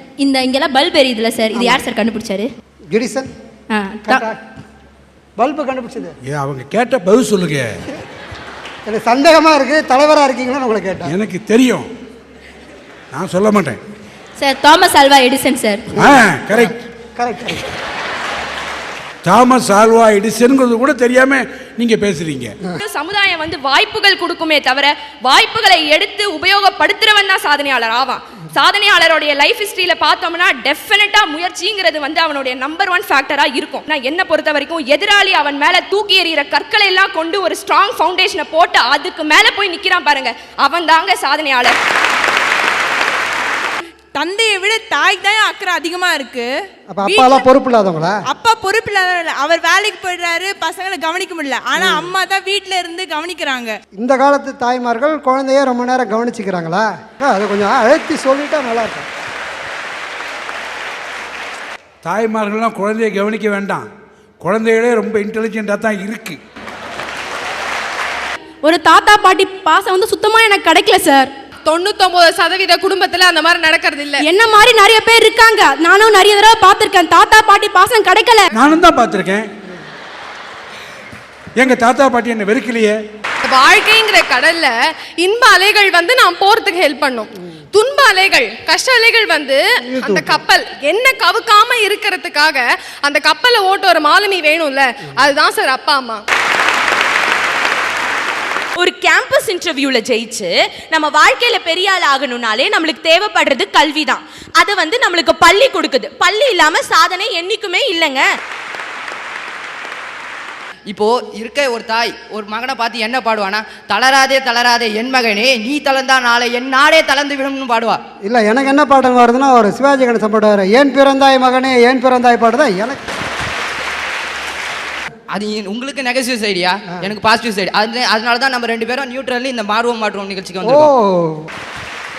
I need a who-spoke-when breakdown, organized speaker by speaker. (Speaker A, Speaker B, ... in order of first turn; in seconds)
Speaker A: 0.2-2.5, 3.7-4.2, 14.4-15.9
Speaker B: 1.5-1.9, 2.9-3.3, 4.0-4.4, 5.4-6.1, 8.9-11.1, 16.0-17.7, 46.9-48.1, 51.8-52.1, 54.0-59.1, 90.0-90.4, 118.2-123.0, 130.6-131.5
Speaker C: 6.3-7.8, 11.1-11.9, 13.1-13.8, 16.0-16.7, 19.2-22.5, 62.0-63.9, 64.4-66.4, 78.5-79.5, 81.6-83.0
Speaker D: 22.8-41.8
Speaker E: 44.2-46.5, 47.1-47.5, 48.3-53.7
Speaker F: 68.6-71.3, 74.2-78.5
Speaker G: 71.7-74.2, 83.4-96.2
Speaker H: 98.8-108.3
Speaker I: 110.9-118.0, 125.3-130.9